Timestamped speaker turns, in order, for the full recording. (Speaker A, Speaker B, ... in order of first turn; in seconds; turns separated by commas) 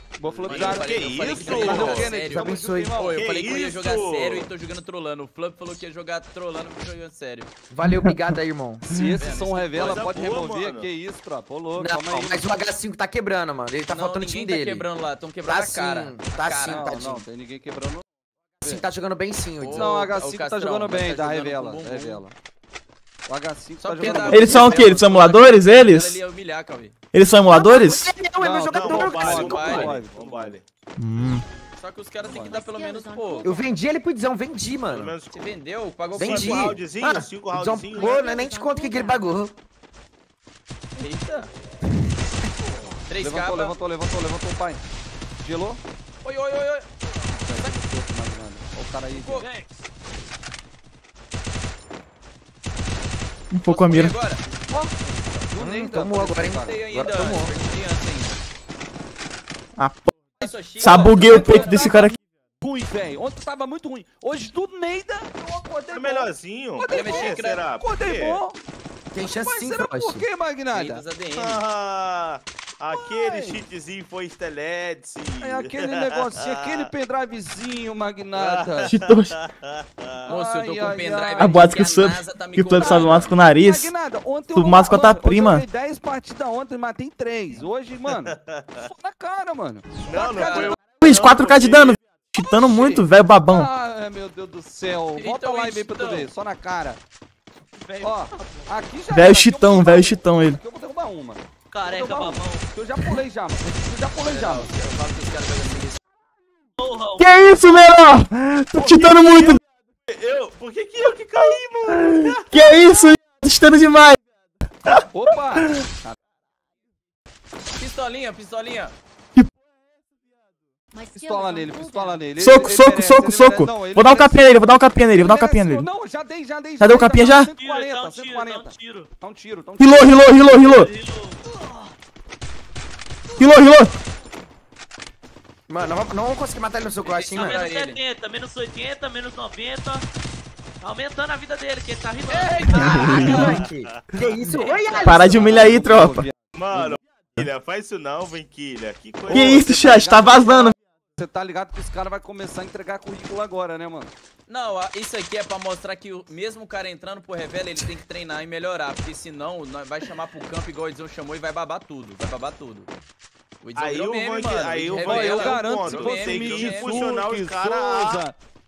Speaker A: 0.2-3.2, Speaker B: 0.4-7.5, Speaker C: 0.4-2.2, Speaker D: 1.5-3.0, Speaker C: 3.1-4.5, Speaker D: 7.7-9.0, Speaker A: 8.9-12.5, Speaker B: 9.2-10.2, Speaker C: 9.8-10.9, Speaker D: 11.7-14.9, Speaker B: 13.9-16.9, Speaker D: 15.4-17.3, Speaker A: 16.6-18.0, Speaker D: 18.6-20.1, Speaker B: 19.6-22.2, Speaker A: 19.7-22.3, Speaker A: 23.3-24.9, Speaker B: 23.8-26.9, Speaker D: 24.0-24.7, Speaker E: 24.3-26.2, Speaker E: 27.1-28.1, Speaker D: 27.5-29.8, Speaker A: 28.4-30.6, Speaker C: 28.7-30.6, Speaker B: 29.0-29.9, Speaker E: 31.0-31.4, Speaker B: 31.8-33.5, Speaker A: 32.2-32.6, Speaker F: 32.5-33.7, Speaker D: 33.4-35.1, Speaker C: 34.9-35.5, Speaker B: 35.3-36.8, Speaker D: 36.1-39.5, Speaker C: 36.1-38.4, Speaker F: 38.0-39.4, Speaker B: 41.0-41.5, Speaker B: 43.1-43.7, Speaker A: 43.1-44.8, Speaker A: 45.4-45.8, Speaker B: 46.2-47.7, Speaker A: 47.4-49.5, Speaker B: 49.1-49.8, Speaker E: 53.5-54.1, Speaker B: 53.7-54.4, Speaker A: 54.7-56.8, Speaker D: 55.6-57.5, Speaker B: 56.5-58.4, Speaker E: 59.8-60.1, Speaker B: 60.4-62.0, Speaker A: 60.4-68.6, Speaker E: 60.8-62.2, Speaker C: 65.9-68.4, Speaker B: 66.9-67.6, Speaker D: 69.1-70.2, Speaker A: 69.2-71.0, Speaker B: 70.7-71.6, Speaker C: 71.3-76.9, Speaker A: 72.9-73.6, Speaker A: 75.4-79.0, Speaker C: 78.3-80.3, Speaker E: 78.9-79.3, Speaker A: 80.2-81.9, Speaker B: 80.3-83.3, Speaker E: 81.4-83.9, Speaker A: 82.8-89.9, Speaker E: 84.6-85.6, Speaker C: 88.2-88.9, Speaker C: 90.1-92.0, Speaker B: 90.1-90.7, Speaker E: 91.0-93.7, Speaker A: 92.5-97.0, Speaker B: 95.2-96.3, Speaker F: 97.8-98.7, Speaker A: 98.0-104.8, Speaker E: 99.1-100.6, Speaker F: 101.7-102.7, Speaker B: 104.2-106.0, Speaker F: 106.8-107.8, Speaker E: 107.2-109.6, Speaker C: 108.8-112.4, Speaker E: 112.1-114.2, Speaker A: 115.1-116.2, Speaker B: 117.8-119.0, Speaker F: 121.0-122.2, Speaker A: 121.1-130.7, Speaker E: 122.4-125.8, Speaker E: 126.8-127.5, Speaker F: 127.5-129.1, Speaker E: 129.8-130.9, Speaker F: 130.6-131.5, Speaker E: 133.4-133.9, Speaker D: 135.7-137.6, Speaker B: 137.1-138.0, Speaker F: 137.3-140.1, Speaker F: 140.8-143.5, Speaker B: 142.3-143.5, Speaker D: 142.6-145.5, Speaker C: 143.0-144.3, Speaker F: 144.5-145.1, Speaker A: 145.0-147.0, Speaker E: 145.0-146.3, Speaker C: 146.5-150.2, Speaker A: 149.3-154.1, Speaker E: 149.3-150.8, Speaker B: 154.5-162.9, Speaker B: 163.6-167.1, Speaker C: 163.8-168.2, Speaker A: 165.0-168.4